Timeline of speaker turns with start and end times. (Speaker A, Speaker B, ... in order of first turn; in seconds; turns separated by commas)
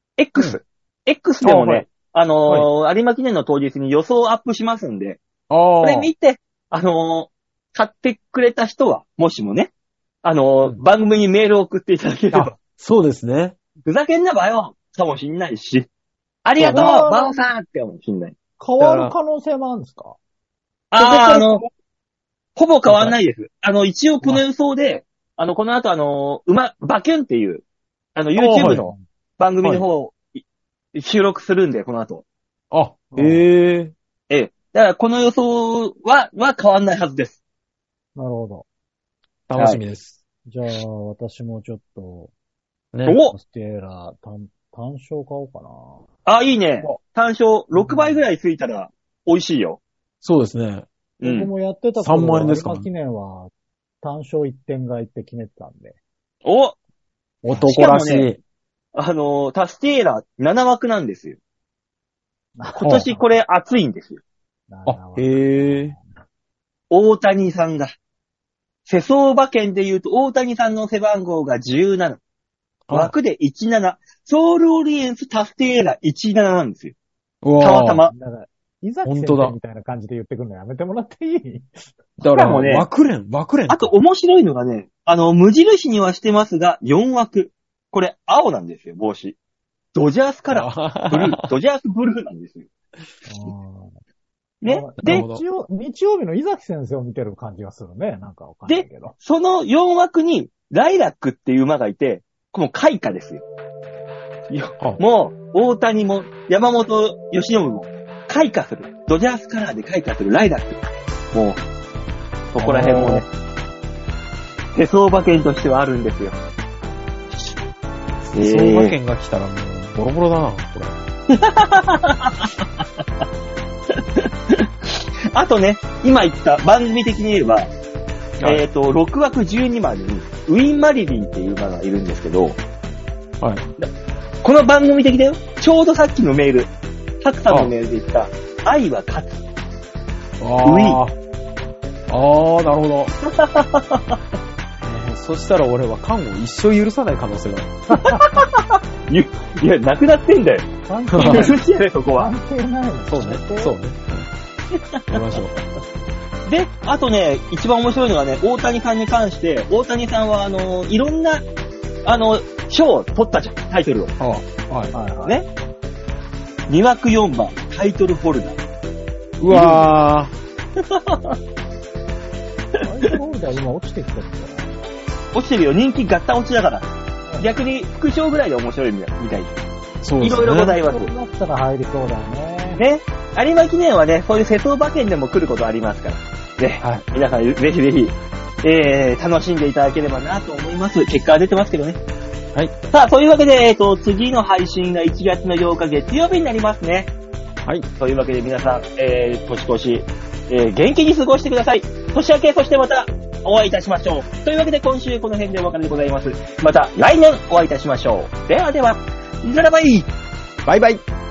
Speaker A: 0.2-5.2, Speaker B: 1.4-1.9, Speaker B: 5.5-6.1, Speaker A: 5.8-9.7, Speaker A: 10.2-12.6, Speaker B: 12.3-13.6, Speaker A: 13.8-15.9, Speaker A: 16.4-18.3, Speaker B: 16.6-17.0, Speaker C: 16.6-17.4, Speaker C: 18.6-20.2, Speaker B: 18.8-19.2, Speaker A: 20.9-21.6, Speaker B: 21.0-21.7, Speaker A: 22.6-27.6, Speaker B: 22.9-23.2, Speaker A: 28.1-30.4, Speaker B: 28.4-28.8, Speaker C: 28.6-29.0, Speaker A: 30.9-32.2, Speaker B: 32.7-33.9, Speaker C: 33.1-33.5, Speaker A: 34.3-37.4, Speaker C: 38.2-38.6, Speaker B: 39.5-40.2, Speaker C: 40.5-42.3, Speaker B: 42.9-43.2, Speaker A: 43.1-43.4, Speaker C: 43.3-46.0, Speaker A: 46.3-49.8, Speaker C: 47.7-48.2, Speaker B: 50.2-50.9, Speaker A: 51.2-51.5, Speaker C: 51.2-53.5, Speaker B: 52.0-52.9, Speaker C: 54.0-56.0, Speaker A: 56.5-56.8, Speaker B: 57.4-58.4, Speaker A: 57.6-58.3, Speaker A: 59.0-61.4, Speaker C: 62.6-63.4, Speaker A: 62.8-64.2, Speaker C: 64.7-66.1, Speaker B: 64.9-66.0, Speaker A: 66.9-67.9, Speaker A: 68.9-72.2, Speaker B: 72.9-73.1, Speaker A: 72.9-76.9, Speaker B: 77.4-78.0, Speaker A: 77.6-78.1, Speaker C: 78.1-81.7, Speaker B: 79.0-79.5, Speaker B: 82.2-83.9, Speaker A: 82.3-82.8, Speaker A: 83.7-89.4, Speaker A: 90.0-92.7, Speaker B: 90.5-91.5, Speaker C: 93.2-93.9, Speaker A: 94.6-95.3, Speaker C: 94.6-99.2, Speaker B: 95.0-95.4, Speaker A: 98.7-103.4, Speaker A: 104.5-110.8, Speaker A: 111.3-111.6, Speaker A: 112.5-113.3, Speaker B: 112.6-113.2, Speaker A: 114.8-116.4, Speaker B: 118.2-121.0, Speaker A: 118.4-119.0, Speaker A: 121.3-122.5, Speaker A: 124.0-127.7, Speaker A: 128.4-132.6, Speaker A: 134.4-139.4, Speaker B: 140.4-141.2, Speaker A: 140.6-141.0, Speaker B: 142.1-143.1, Speaker A: 143.3-144.2, Speaker B: 144.8-147.7, Speaker C: 147.9-148.2, Speaker A: 148.0-152.3, Speaker C: 150.9-153.7, Speaker B: 151.1-151.5, Speaker B: 153.1-154.3, Speaker A: 154.8-155.0, Speaker B: 155.1-155.6, Speaker A: 156.5-161.4, Speaker A: 162.1-164.1, Speaker B: 164.2-164.9, Speaker C: 164.9-165.4, Speaker A: 166.7-168.6, Speaker B: 169.4-170.3, Speaker A: 169.5-169.8, Speaker A: 170.8-171.4, Speaker A: 172.8-173.1, Speaker C: 172.8-174.8, Speaker A: 175.3-179.6, Speaker B: 180.0-180.8, Speaker A: 180.2-181.1, Speaker C: 180.9-182.8, Speaker A: 182.8-192.0, Speaker A: 192.9-197.1, Speaker A: 198.0-210.1, Speaker B: 210.7-211.0